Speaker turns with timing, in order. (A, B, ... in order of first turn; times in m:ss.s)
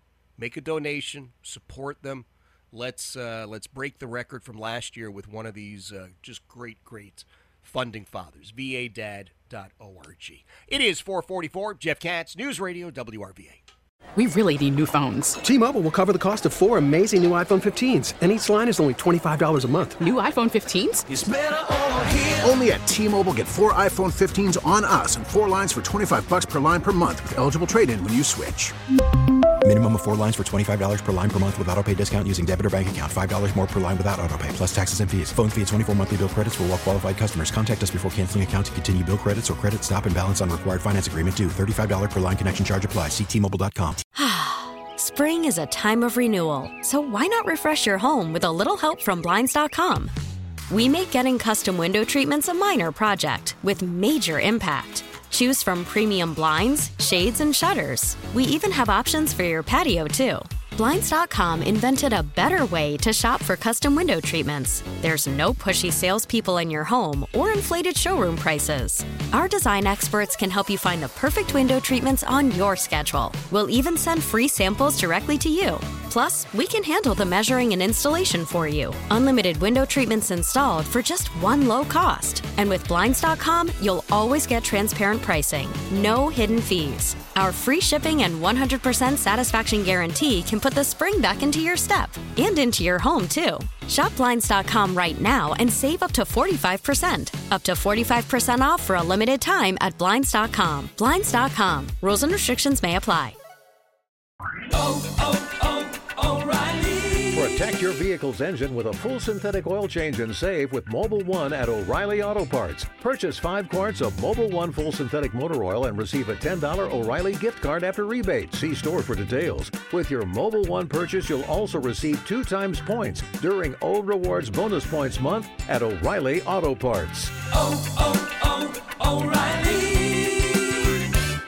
0:00.4-0:13.6 A
0:14.2-0:15.4 B
0:15.5-0:20.0 C
0:17.2-0:17.8 D
0:20.0-0:21.0 B
0:21.1-0:28.7 D
0:29.6-0:44.0 E
0:44.2-0:50.1 F
0:50.7-1:43.4 F
1:44.9-1:47.3 B
1:47.3-2:07.4 G